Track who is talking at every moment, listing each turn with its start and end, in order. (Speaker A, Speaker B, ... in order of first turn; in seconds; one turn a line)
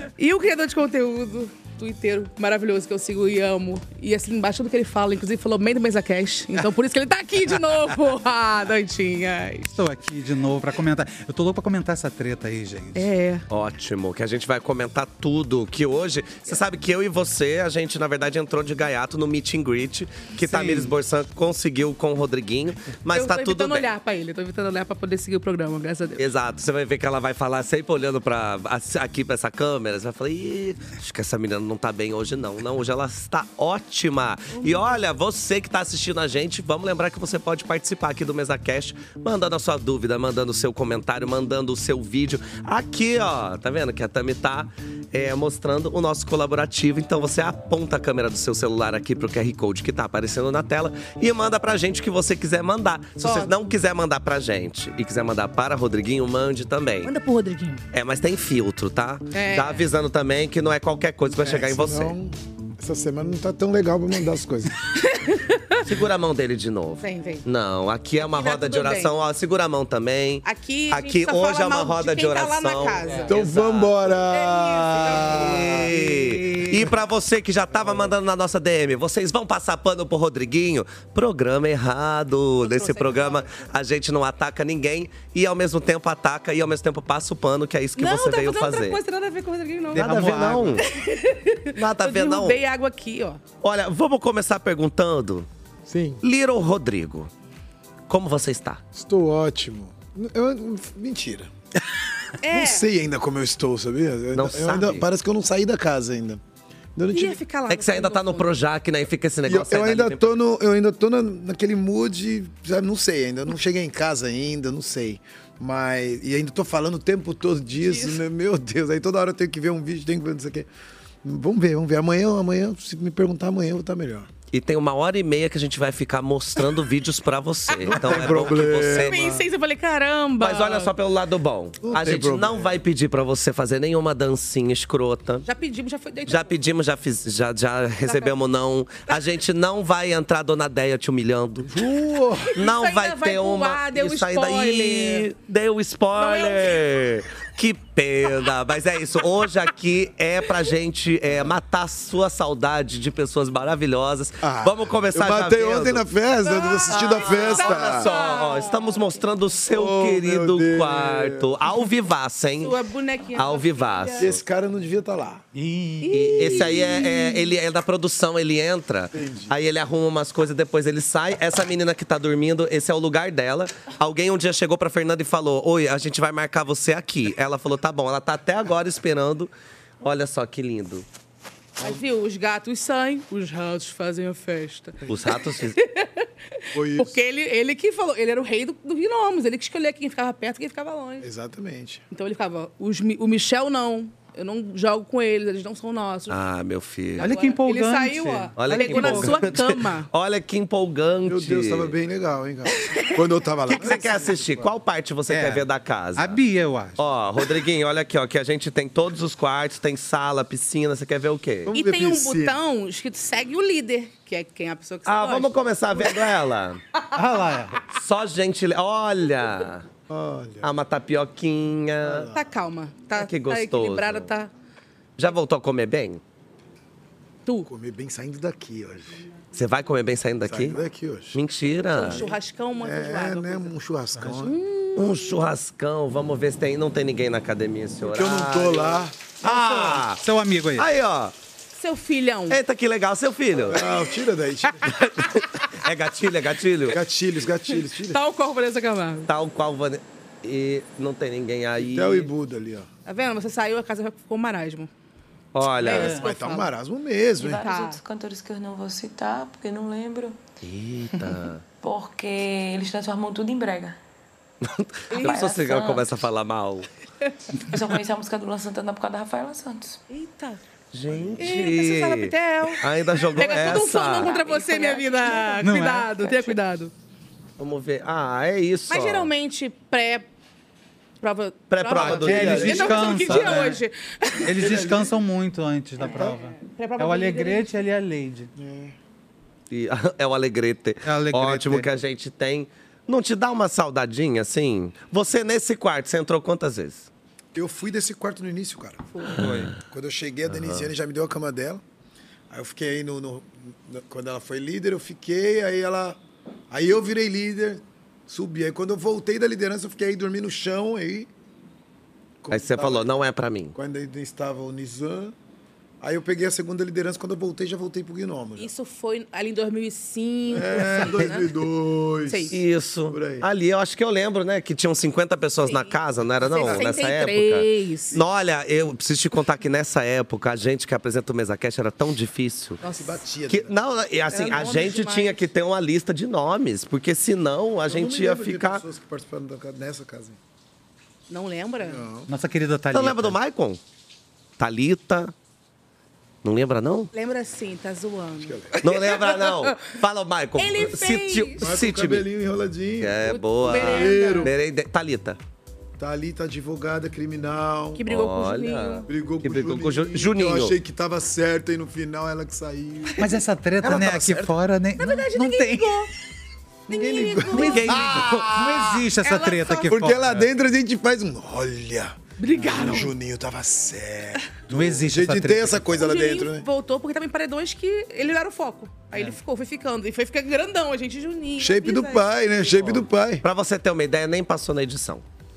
Speaker A: 0.2-9.7
Speaker B: 9.7-13.1
Speaker A: 12.9-13.4
Speaker C: 13.5-23.9
Speaker B: 20.5-20.9
Speaker A: 23.1-26.3
Speaker C: 26.2-57.1
Speaker A: 34.5-35.0
Speaker A: 53.2-53.5
Speaker A: 57.0-57.8
Speaker C: 57.9-62.1
Speaker A: 59.3-59.8
Speaker D: 61.3-64.7
Speaker A: 65.0-65.8
Speaker C: 65.8-74.1
Speaker A: 67.0-67.5
Speaker A: 68.2-69.1
Speaker A: 70.4-73.4
Speaker D: 73.2-75.9
Speaker A: 74.3-75.5
Speaker B: 75.0-77.0
Speaker C: 75.2-89.0
Speaker A: 82.6-83.7
Speaker A: 88.0-90.1
Speaker B: 89.9-90.9
Speaker C: 89.9-90.9
Speaker A: 90.8-93.4
Speaker C: 91.7-92.6
Speaker C: 93.6-95.5
Speaker D: 95.8-96.2
Speaker C: 96.2-97.3
Speaker C: 98.1-98.8
Speaker D: 98.9-101.5
Speaker A: 102.4-102.8
Speaker D: 102.5-106.4
Speaker C: 104.3-105.0
Speaker D: 107.0-107.4
Speaker A: 107.1-108.5
Speaker C: 107.7-110.3
Speaker D: 109.4-120.7
Speaker A: 117.8-118.2
Speaker D: 121.2-124.3
Speaker C: 124.5-129.4
Speaker A: 127.8-130.9
Speaker D: 127.8-129.4
Speaker C: 130.4-135.4
Speaker D: 131.8-132.8
Speaker A: 135.4-136.6
Speaker C: 136.3-141.7
Speaker A: 138.0-138.4
Speaker D: 141.7-142.5
Speaker A: 142.5-145.3
Speaker C: 142.5-156.0
Speaker A: 146.1-147.2
Speaker D: 154.4-158.1
Speaker A: 156.4-159.1
Speaker C: 156.8-162.8
Speaker D: 159.7-161.6
Speaker A: 162.6-164.3
Speaker C: 163.3-164.4
Speaker D: 164.2-165.4
Speaker B: 165.5-166.8
Speaker A: 166.0-167.5
Speaker C: 166.1-181.1
Speaker D: 169.1-169.6
Speaker A: 181.8-191.2
Speaker C: 185.1-185.8
Speaker D: 186.7-187.2
Speaker D: 191.2-192.0
Speaker A: 192.1-196.4
Speaker C: 196.3-197.3
Speaker A: 197.2-200.1
Speaker B: 197.2-199.6
Speaker C: 198.6-202.0
Speaker D: 201.2-204.7
Speaker A: 202.8-203.2
Speaker C: 203.7-206.4
Speaker B: 205.3-205.6
Speaker B: 206.2-207.0
Speaker C: 207.0-211.7
Speaker D: 211.7-212.6
Speaker A: 211.7-216.2
Speaker C: 215.1-216.8
Speaker B: 217.1-217.8
Speaker C: 217.9-219.8
Speaker D: 220.1-220.7
Speaker C: 220.6-222.3
Speaker D: 222.0-222.4
Speaker A: 222.3-224.5
Speaker C: 223.2-224.3
Speaker C: 225.2-226.2
Speaker D: 227.7-229.2
Speaker C: 229.5-230.8
Speaker D: 230.4-231.4
Speaker C: 231.3-232.3
Speaker A: 231.9-233.7
Speaker D: 232.1-234.6
Speaker A: 234.4-235.4
Speaker C: 234.9-240.2
Speaker D: 238.0-239.2
Speaker B: 239.4-240.9
Speaker C: 240.8-241.3
Speaker A: 241.7-242.6
Speaker C: 242.5-243.8
Speaker D: 243.7-245.4
Speaker C: 245.2-247.0
Speaker D: 246.9-248.2
Speaker A: 247.7-249.3
Speaker C: 249.3-252.3
Speaker D: 251.8-252.9
Speaker A: 253.1-254.9
Speaker C: 255.5-256.2
Speaker A: 255.8-256.7
Speaker D: 256.0-257.6
Speaker E: 257.4-260.4
Speaker A: 257.6-258.0
Speaker C: 260.6-261.6
Speaker E: 261.8-264.0
Speaker C: 264.6-266.9
Speaker A: 265.1-265.6
Speaker E: 265.2-266.1
Speaker E: 267.7-270.0
Speaker A: 270.1-270.6
Speaker C: 270.9-274.5
Speaker D: 271.1-271.6
Speaker A: 271.4-276.9
Speaker E: 274.5-275.0
Speaker B: 275.6-276.4
Speaker C: 277.6-279.3
Speaker A: 278.9-280.3
Speaker A: 281.2-284.9
Speaker C: 281.7-283.6
Speaker B: 281.9-283.8
Speaker D: 282.3-282.9
Speaker B: 284.4-288.5
Speaker D: 284.5-285.2
Speaker A: 286.0-287.8
Speaker D: 286.1-286.3
Speaker D: 288.6-288.9
Speaker C: 289.7-297.1
Speaker B: 291.1-291.9
Speaker D: 297.5-299.3
Speaker A: 299.1-299.4
Speaker C: 299.4-299.8
Speaker B: 299.4-299.7
Speaker D: 299.8-301.8
Speaker C: 300.5-300.9
Speaker D: 302.5-306.2
Speaker D: 306.7-311.3
Speaker D: 312.4-313.1
Speaker C: 312.5-313.7
Speaker D: 313.7-315.3
Speaker D: 316.0-318.7
Speaker A: 318.6-321.5
Speaker D: 320.5-322.6
Speaker A: 322.2-322.6
Speaker C: 322.5-332.8
Speaker D: 323.1-323.4
Speaker A: 325.6-328.2
Speaker D: 326.7-326.9
Speaker A: 332.8-333.2
Speaker D: 332.9-333.7
Speaker C: 333.5-338.8
Speaker A: 334.3-335.5
Speaker D: 337.9-340.4
Speaker A: 341.3-342.0
Speaker D: 341.8-342.3
Speaker B: 342.3-343.4
Speaker C: 342.9-343.8
Speaker C: 344.6-345.3
Speaker C: 346.4-347.1
Speaker A: 347.1-350.0
Speaker D: 348.4-348.8
Speaker C: 348.8-352.3
Speaker A: 350.6-351.6
Speaker D: 351.6-354.5
Speaker C: 353.0-355.4
Speaker A: 353.2-354.5
Speaker D: 356.0-358.0
Speaker A: 357.9-359.1
Speaker C: 358.1-360.8
Speaker D: 359.1-364.6
Speaker B: 363.2-366.0
Speaker A: 364.9-366.1
Speaker A: 366.9-368.0
Speaker D: 366.9-368.9
Speaker C: 367.4-368.6
Speaker B: 367.6-370.5
Speaker A: 369.2-369.9
Speaker D: 369.9-376.6
Speaker A: 372.4-373.1
Speaker B: 372.5-373.1
Speaker B: 374.7-375.9
Speaker A: 375.9-382.2
Speaker D: 381.6-383.4
Speaker C: 382.8-385.2